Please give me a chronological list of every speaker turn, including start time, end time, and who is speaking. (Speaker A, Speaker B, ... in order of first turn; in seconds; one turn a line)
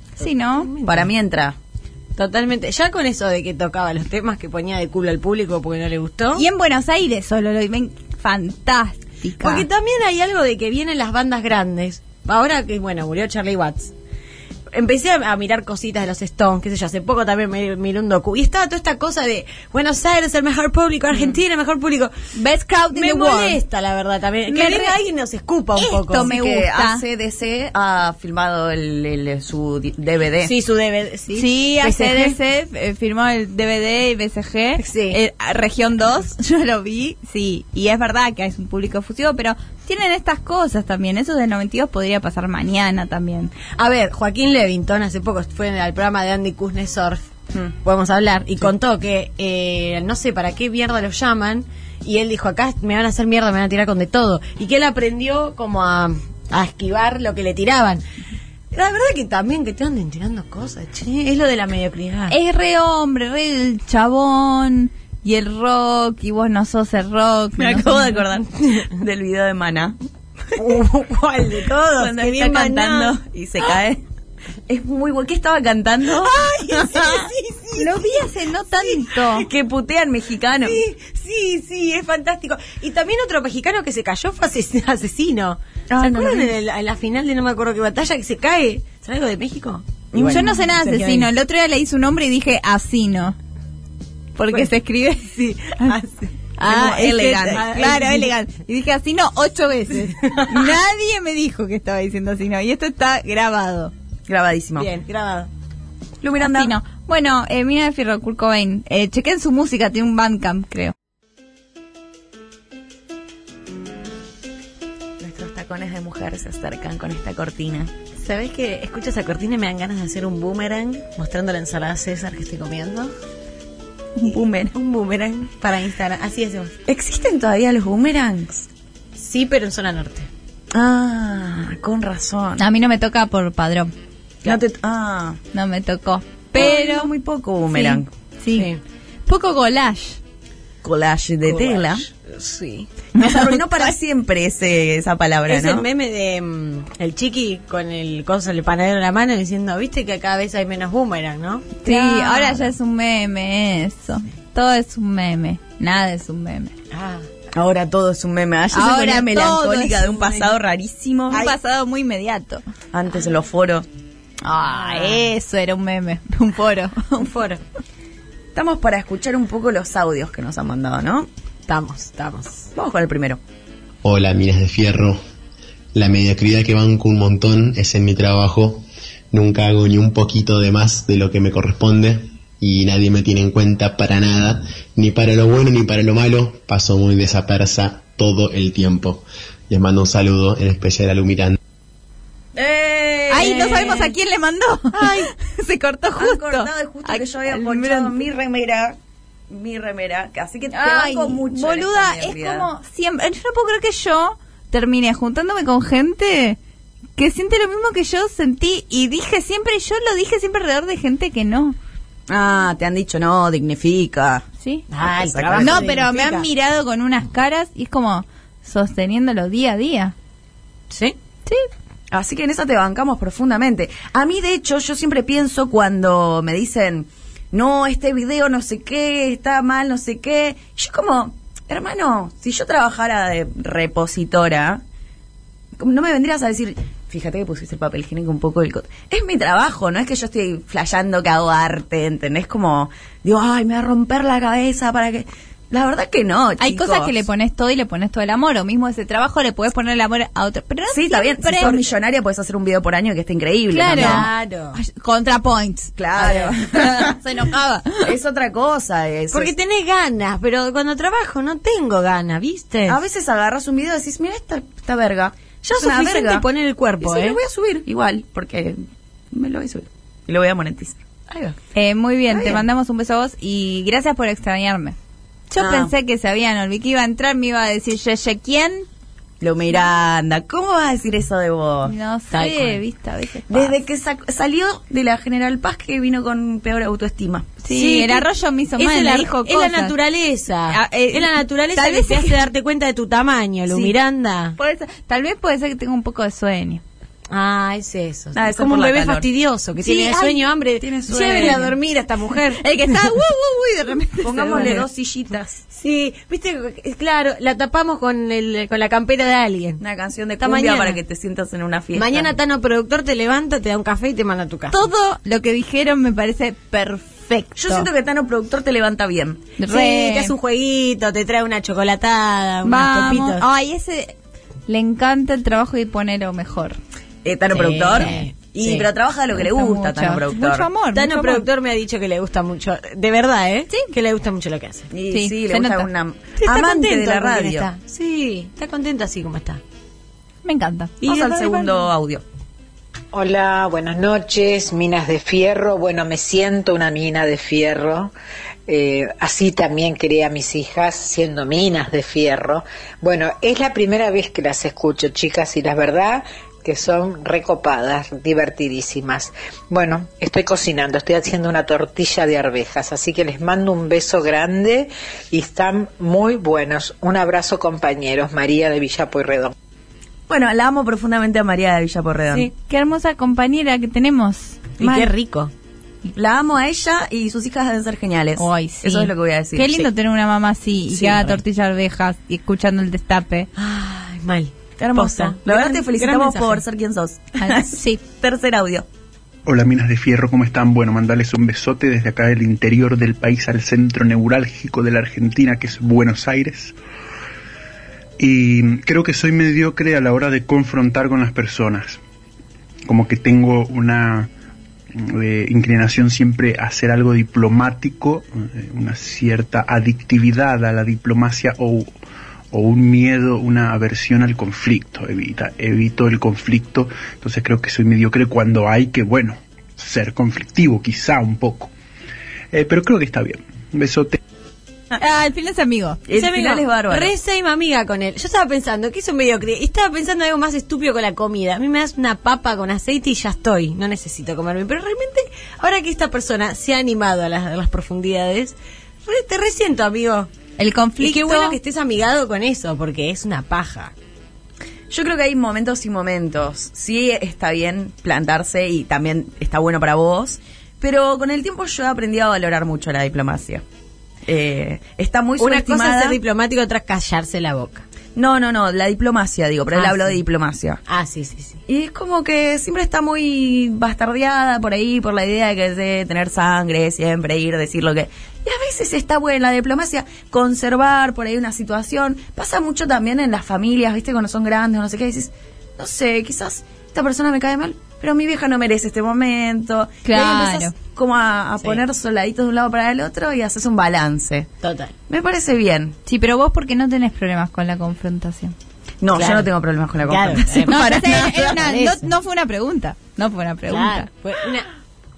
Speaker A: 0.2-0.7
Speaker B: 0.6-1.1
Speaker C: 0.8-1.6
Speaker B: 2.1-6.4
Speaker A: 6.3-9.6
Speaker B: 9.4-13.9
Speaker B: 14.7-22.1
Speaker A: 22.3-23.6
Speaker B: 22.9-26.3
Speaker A: 24.5-24.9
Speaker A: 25.8-27.0
Speaker C: 26.2-30.5
Speaker B: 30.4-32.4
Speaker A: 31.3-43.5
Speaker B: 34.8-35.2
Speaker B: 43.8-47.2
Speaker B: 47.8-58.0
Speaker B: 58.7-62.3
Speaker A: 62.3-68.2
Speaker C: 67.6-70.0
Speaker B: 70.5-73.2
Speaker C: 71.9-74.0
Speaker C: 74.7-77.3
Speaker B: 76.2-78.3
Speaker A: 77.8-79.5
Speaker C: 79.4-80.8
Speaker B: 80.6-91.3
Speaker C: 85.9-86.5
Speaker C: 90.1-90.5
Speaker A: 90.2-93.3
Speaker A: 94.4-95.9
Speaker B: 95.4-98.3
Speaker A: 96.6-103.9
Speaker C: 96.6-97.7
Speaker B: 100.0-100.7
Speaker C: 104.3-104.9
Speaker B: 104.8-105.5
Speaker C: 106.2-106.7
Speaker A: 106.4-110.9
Speaker C: 115.2-117.9
Speaker B: 118.2-123.1
Speaker C: 124.2-124.7
Speaker B: 124.7-126.7
Speaker C: 126.9-128.7
Speaker B: 129.2-130.3
Speaker C: 130.7-132.6
Speaker A: 132.6-133.9
Speaker C: 134.4-135.4
Speaker A: 135.5-137.1
Speaker C: 136.5-138.1
Speaker A: 137.7-138.7
Speaker B: 138.5-138.8
Speaker A: 139.3-140.2
Speaker C: 140.8-142.1
Speaker B: 141.4-142.9
Speaker C: 143.2-145.8
Speaker A: 143.2-143.6
Speaker B: 145.5-152.6
Speaker A: 151.8-156.7
Speaker B: 156.9-157.2
Speaker C: 157.5-161.5
Speaker A: 158.7-160.2
Speaker A: 161.3-162.6
Speaker C: 162.9-163.9
Speaker A: 164.4-167.3
Speaker B: 164.8-165.2
Speaker B: 167.2-167.6
Speaker C: 168.5-171.3
Speaker B: 171.7-172.7
Speaker C: 172.7-173.4
Speaker D: 174.0-175.2
Speaker D: 175.9-191.6
Speaker C: 192.5-194.1
Speaker A: 193.3-198.2
Speaker B: 193.5-193.9
Speaker C: 196.2-199.0
Speaker C: 199.5-202.7
Speaker A: 200.7-206.6
Speaker A: 207.2-211.8
Speaker C: 212.3-214.4
Speaker A: 214.6-214.9
Speaker B: 214.9-216.4
Speaker C: 215.0-215.9
Speaker A: 215.6-220.1
Speaker B: 220.9-221.2
Speaker C: 222.1-234.8
Speaker C: 235.8-247.1
Speaker A: 246.6-251.8
Speaker C: 250.9-254.3
Speaker A: 253.7-258.1
Speaker B: 253.9-254.8
Speaker C: 256.0-257.1
Speaker C: 258.0-259.5
Speaker B: 259.3-263.0
Speaker C: 262.9-266.4
Speaker B: 265.7-267.4
Speaker C: 267.0-268.8
Speaker C: 269.3-271.6
Speaker A: 271.7-274.9
Speaker A: 275.5-278.9
Speaker C: 275.6-275.9
Speaker C: 279.4-281.9
Speaker A: 281.8-283.8
Speaker B: 282.3-282.8
Speaker C: 283.5-287.5
Speaker A: 287.6-289.9
Speaker B: 287.7-294.6
Speaker A: 290.7-292.4
Speaker A: 294.6-296.8
Speaker B: 297.3-302.7
Speaker C: 298.3-299.3
Speaker A: 299.8-300.4
Speaker C: 300.8-301.7
Speaker A: 301.4-301.6
Speaker A: 302.6-304.8
Speaker C: 304.2-305.6
Speaker B: 304.3-304.8
Speaker B: 305.7-309.8
Speaker C: 309.8-312.3
Speaker B: 310.4-311.0
Speaker B: 311.9-314.8
Speaker A: 314.7-317.9
Speaker C: 317.6-319.4
Speaker A: 319.6-320.3
Speaker B: 319.7-323.4
Speaker A: 322.6-324.1
Speaker A: 324.7-326.8
Speaker C: 327.2-330.7
Speaker B: 327.5-328.9
Speaker A: 329.3-331.4
Speaker B: 330.9-334.9
Speaker C: 334.9-337.7
Speaker A: 335.1-335.9
Speaker B: 336.4-339.6
Speaker A: 340.4-341.0
Speaker C: 341.0-342.2
Speaker B: 341.0-341.8
Speaker E: 343.1-348.1
Speaker E: 348.7-369.5
Speaker C: 370.3-372.5
Speaker A: 372.7-374.6
Speaker B: 374.8-375.5
Speaker C: 374.8-375.1
Speaker C: 376.1-379.9
Speaker A: 378.4-383.5
Speaker B: 380.9-381.4
Speaker B: 383.6-386.6
Speaker C: 384.8-388.9
Speaker A: 387.4-388.0
Speaker F: 389.4-396.7
Speaker F: 398.2-402.0
Speaker F: 402.8-404.3
Speaker F: 404.9-411.9
Speaker F: 412.5-421.7
Speaker F: 422.5-424.2
Speaker A: 425.0-426.0
Speaker C: 426.1-427.1
Speaker B: 426.1-440.3
Speaker A: 440.6-441.6
Speaker B: 441.0-443.9
Speaker C: 444.9-453.6
Speaker C: 454.2-456.2
Speaker B: 455.4-457.8
Speaker C: 458.1-460.8
Speaker B: 459.7-460.2
Speaker B: 460.9-461.6
Speaker C: 461.7-484.5
Speaker A: 480.0-480.7
Speaker B: 484.6-484.9
Speaker C: 485.1-486.0
Speaker A: 486.1-488.5
Speaker C: 489.0-491.6
Speaker B: 489.1-489.5
Speaker B: 490.0-492.1
Speaker A: 490.7-494.1
Speaker B: 493.7-494.6